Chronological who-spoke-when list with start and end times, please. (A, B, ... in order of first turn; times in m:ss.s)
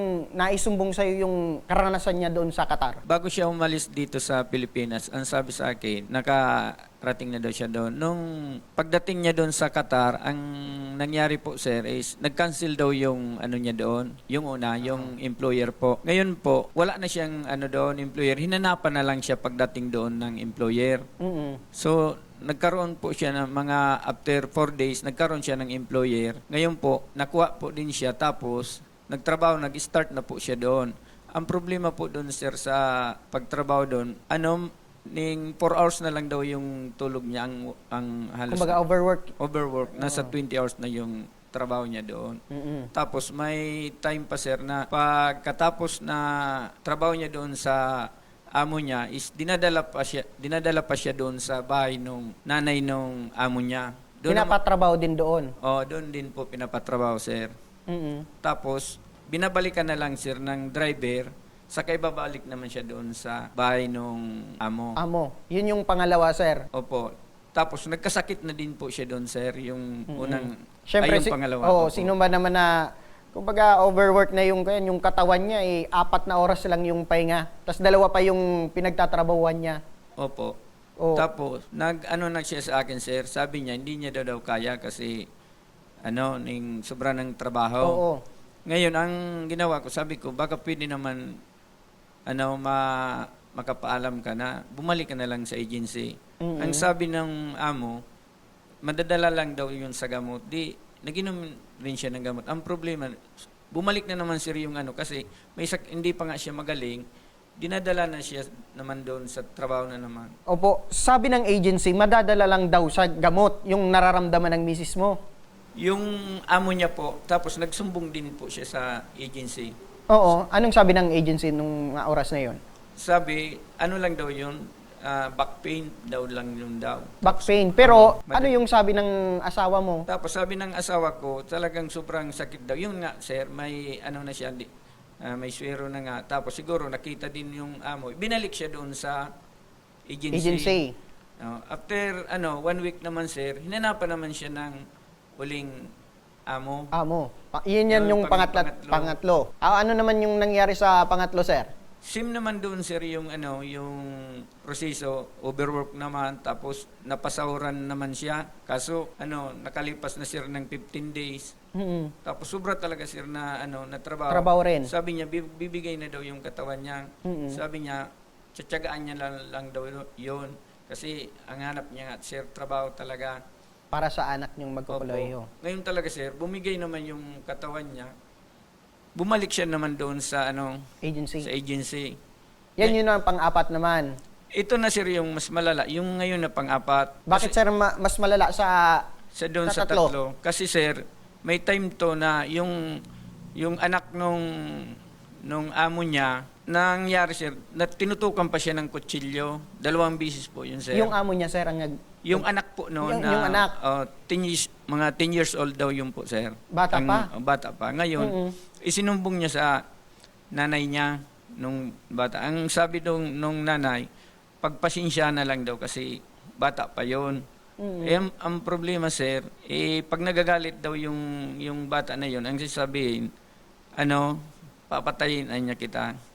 0:00.4-0:03.0 A
0:03.0-0:21.1 B
0:14.8-0:15.1 A
0:21.2-0:21.6 A
0:21.7-0:38.8 B
0:38.5-0:39.3 A
0:39.4-0:42.4 B
0:40.0-0:40.3 A
0:42.5-0:42.9 A
0:42.9-0:54.6 B
0:54.3-0:55.5 A
0:55.6-0:57.5 B
0:57.9-0:58.3 A
0:58.4-1:05.0 B
1:05.0-1:06.7 A
1:06.7-1:12.1 B
1:10.1-1:12.8 A
1:13.3-1:19.8 A
1:20.2-1:20.6 B
1:21.0-1:21.3 A
1:21.2-1:25.3 B
1:26.0-1:28.0 B
1:27.8-1:28.2 A
1:28.7-1:31.3 B
1:32.3-1:38.0 B
1:36.4-1:36.9 A
1:38.8-1:43.2 B
1:43.7-1:47.0 B
1:47.6-1:50.3 B
1:50.5-1:55.2 A
1:55.8-1:59.7 B
2:00.1-2:02.6 A
2:03.0-2:08.5 B
2:07.2-2:10.1 A
2:10.1-2:14.7 B
2:15.2-2:19.3 B
2:20.1-2:20.8 B
2:20.3-2:20.9 A
2:21.4-2:24.8 B
2:25.4-2:25.9 B
2:26.5-2:26.9 B
2:26.9-2:31.7 A
2:27.9-2:29.2 B
2:32.0-2:41.5 B
2:41.8-2:42.1 A
2:42.2-2:53.4 B
2:44.3-2:44.9 A
2:47.3-2:47.6 A
2:53.9-2:55.5 A
2:54.9-2:58.1 B
2:59.2-3:00.8 B
3:01.0-3:01.5 A
3:01.4-3:02.2 B
3:02.8-3:04.1 A
3:04.6-3:07.5 B
3:07.3-3:09.0 A
3:09.4-3:13.0 B
3:09.7-3:10.1 A
3:13.6-3:21.1 B
3:20.9-3:22.5 A
3:22.2-3:29.8 B
3:23.0-3:23.7 A
3:26.7-3:27.3 A
3:28.2-3:28.6 A
3:30.5-3:34.1 B
3:34.6-3:37.4 B
3:37.8-3:38.2 A
3:38.0-3:43.3 B
3:44.0-3:46.1 B